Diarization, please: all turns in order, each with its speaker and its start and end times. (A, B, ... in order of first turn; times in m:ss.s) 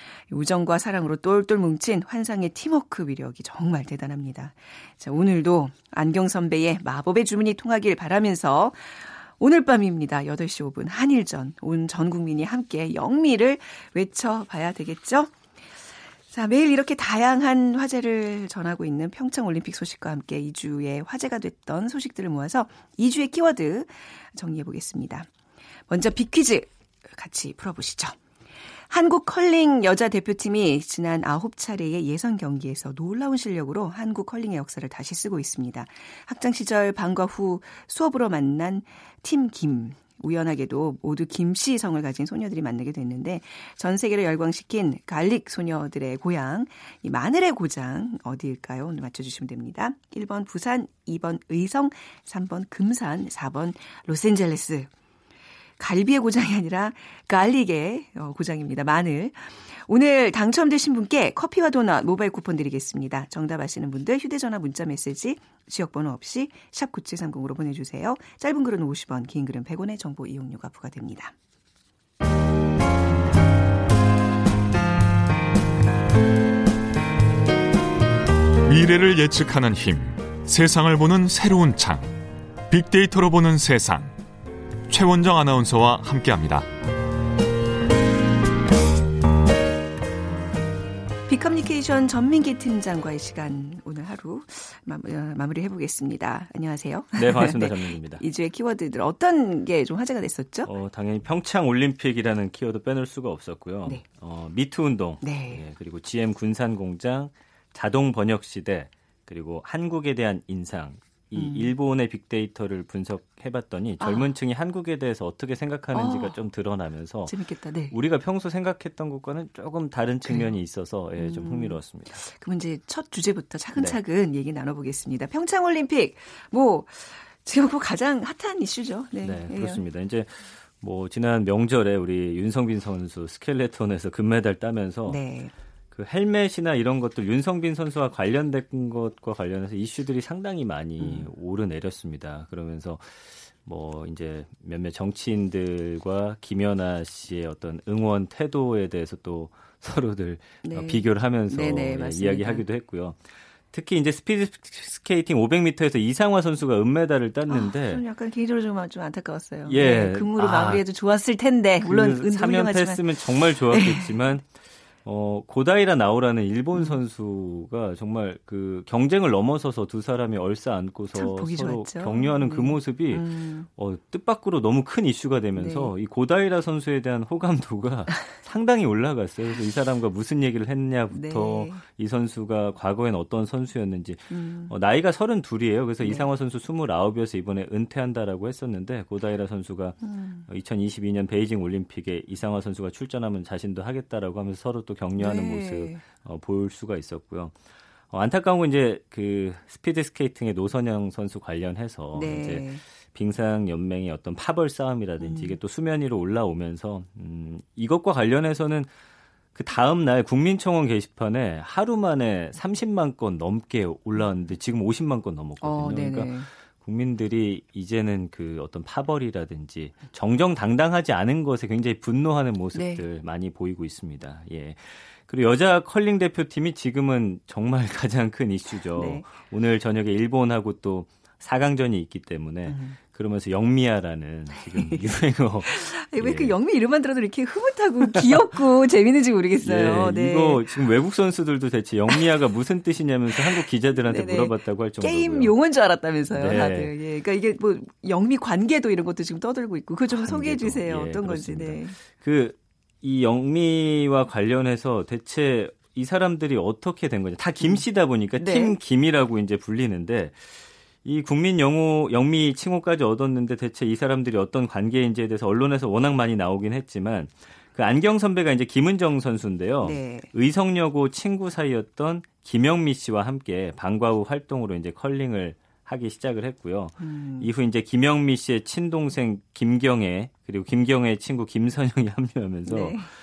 0:00.3-0:15.3 A
0:16.3-0:25.3 A
0:25.9-0:28.2 A
0:28.9-0:54.9 A
0:55.8-1:11.3 A
1:18.6-1:22.1 B
1:22.7-1:24.1 B
1:24.9-1:26.6 B
1:31.3-1:40.7 A
1:37.1-1:38.2 C
1:40.6-1:57.4 C
1:45.2-1:45.6 A
1:51.4-1:51.7 A
1:54.0-1:54.3 A
1:55.9-1:56.4 A
1:57.3-1:57.9 A
1:57.9-2:02.2 C
2:01.2-2:09.8 A
2:09.2-2:15.2 C
2:15.0-2:15.5 A
2:15.9-2:33.2 C
2:21.0-2:21.2 A
2:30.6-2:32.6 A
2:33.7-2:38.0 C
2:37.5-2:44.1 A
2:39.7-2:40.8 C
2:41.8-2:44.5 C
2:45.0-3:17.5 C
2:51.1-2:53.7 A
2:55.6-2:55.9 A
3:01.1-3:01.8 A
3:04.3-3:04.7 A
3:10.0-3:10.4 A
3:15.2-3:16.0 A
3:18.1-3:28.9 C
3:22.1-3:22.8 A
3:25.2-3:25.6 A
3:29.5-3:56.5 C
3:35.6-3:36.5 A
3:42.7-3:43.0 A
3:48.9-3:49.3 A
3:52.7-3:53.0 A
3:54.6-3:55.0 A
3:55.6-4:00.7 A
3:58.1-3:58.4 C
3:59.6-4:05.5 C
4:03.4-4:12.0 A
4:06.3-4:06.9 C
4:10.1-4:43.0 C
4:18.4-4:18.8 A
4:29.8-4:30.3 A
4:37.0-4:37.5 A
4:42.6-4:43.1 A